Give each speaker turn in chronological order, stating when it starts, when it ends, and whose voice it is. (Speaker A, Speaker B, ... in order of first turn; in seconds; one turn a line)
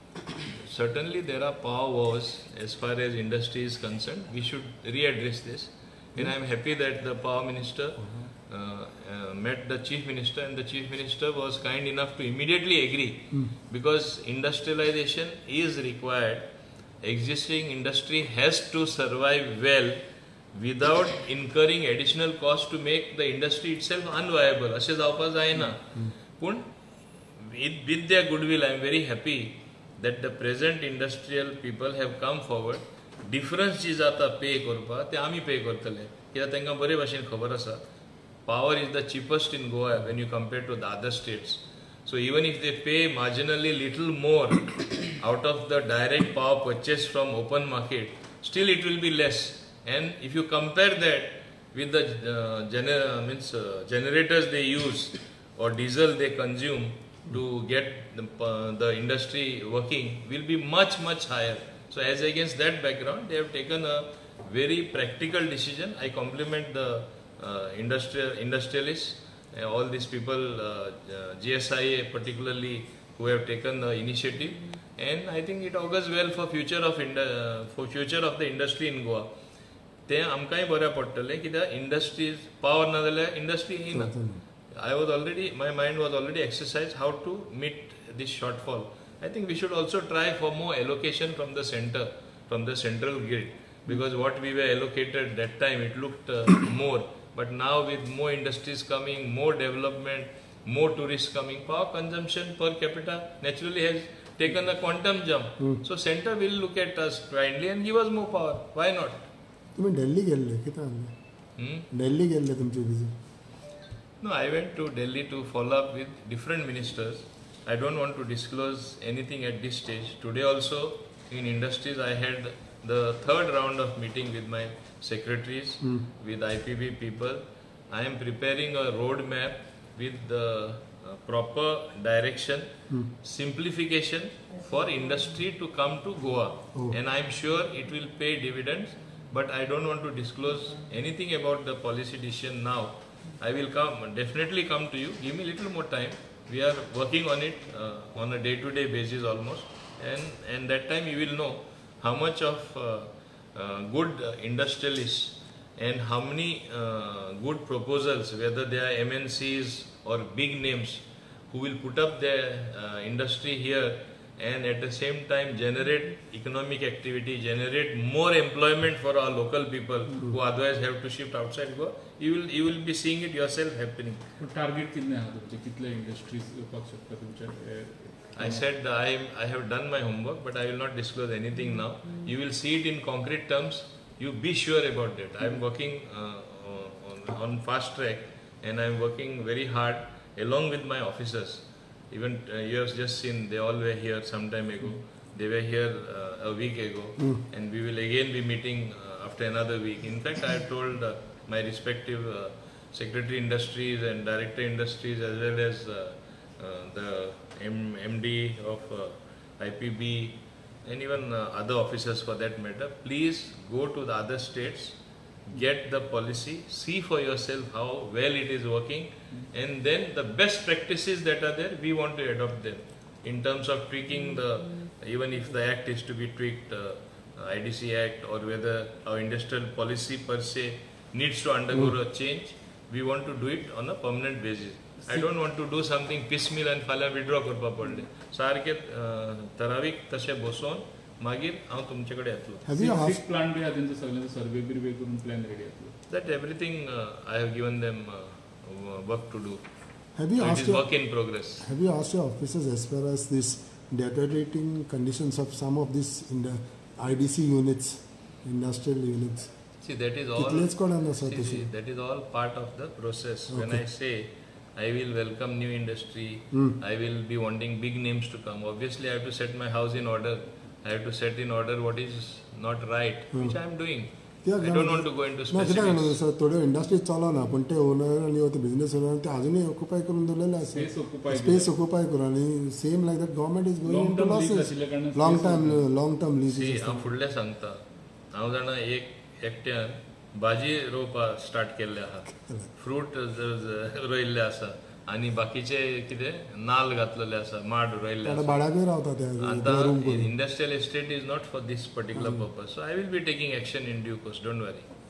Speaker A: 0.3-16.4
Speaker A: 17.0-20.0
Speaker A: 20.5-26.7
Speaker A: 27.4-37.8
Speaker A: 38.5-79.3
Speaker A: 80.1-84.1
Speaker B: 83.9-84.4
Speaker A: 84.7-109.2
Speaker B: 109.8-111.1
Speaker A: 111.6-111.9
Speaker B: 111.9-113.1
Speaker A: 114.2-174.2
Speaker C: 174.4-178.6
Speaker A: 178.4-215.0
Speaker A: 215.5-242.7
Speaker B: 242.7-243.2
Speaker C: 242.7-246.0
Speaker A: 246.1-249.6
Speaker B: 250.2-259.5
Speaker A: 250.4-251.7
Speaker A: 259.8-276.2
Speaker B: 260.4-261.7
Speaker B: 263.5-263.8
Speaker B: 274.4-287.1
Speaker C: 280.7-281.7
Speaker C: 283.8-285.8
Speaker A: 286.5-287.8
Speaker A: 288.3-298.6
Speaker B: 292.3-292.7
Speaker B: 298.2-300.3
Speaker A: 299.4-304.9
Speaker B: 302.1-302.5